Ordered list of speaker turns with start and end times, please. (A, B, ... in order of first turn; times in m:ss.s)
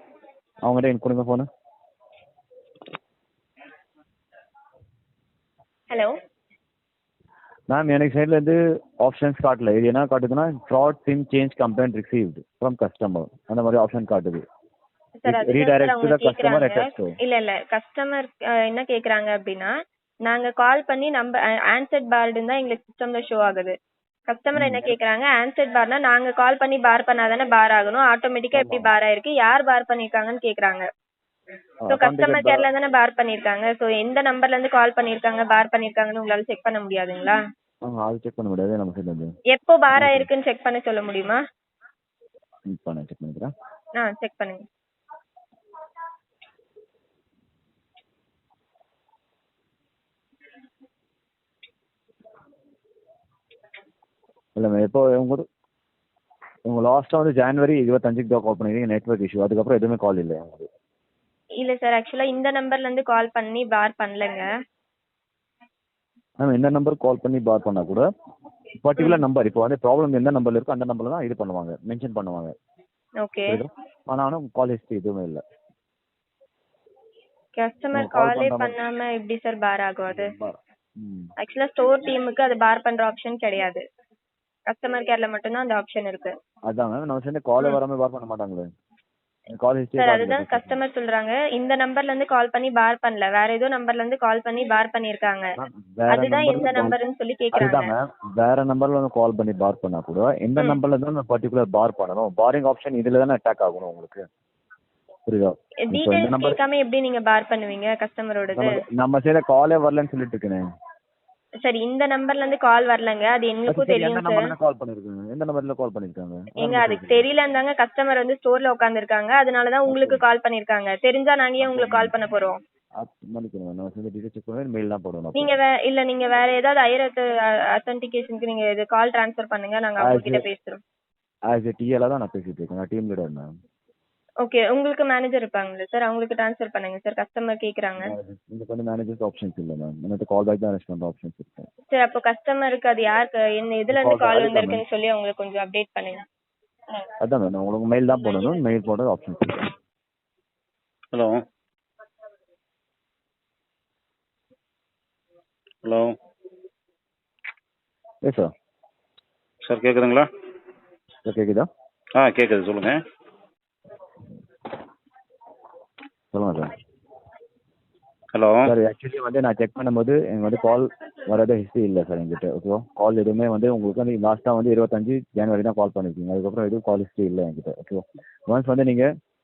0:00.6-0:01.5 A
0:07.7-0:14.4 A
0:15.2-0:19.7 B
0:15.3-0:17.1 A
0:20.2-0:23.7 B
0:24.3-0:30.8 B
0:24.6-0:25.0 A
0:28.5-0:28.9 A
0:31.8-0:32.7 A
0:31.9-0:37.4 B
0:37.8-0:39.3 A
0:39.5-0:41.4 B
0:39.9-0:40.3 A
0:42.7-0:43.5 A
0:44.0-0:44.6 B
0:54.6-0:55.4 A
0:56.6-1:00.7 A
1:01.6-1:04.4 B
1:06.4-1:08.0 A
1:08.8-1:12.5 A
1:13.2-1:13.6 B
1:13.5-1:15.4 A
1:17.6-1:20.3 B
1:17.9-1:18.8 A
1:20.1-1:21.3 A
1:21.4-1:23.8 B
1:24.7-1:26.3 B
1:26.7-1:28.7 A
1:29.5-1:30.8 A
1:30.0-1:35.4 B
1:35.6-1:36.9 A
1:36.1-1:37.9 B
1:37.5-1:44.2 A
1:45.3-1:46.6 A
1:45.9-1:48.7 B
1:48.5-1:50.6 A
1:51.6-1:54.4 B
1:53.7-1:57.3 A
1:56.6-2:02.6 B
1:59.8-2:00.2 A
2:01.6-2:02.2 A
2:03.0-2:05.6 A
2:05.4-2:10.8 B
2:10.0-2:10.4 A
2:11.5-2:13.5 A
2:14.4-2:18.0 B
2:18.1-2:21.7 A
2:21.9-2:26.2 B
2:23.9-2:24.8 A
2:27.2-2:29.7 A
2:35.8-2:36.1 C
2:38.2-2:38.5 A
2:39.6-2:40.3 C
2:41.2-2:41.7 A
2:42.2-2:43.0 C
2:46.3-2:46.7 A
2:48.3-2:48.7 C
2:48.6-2:59.1 A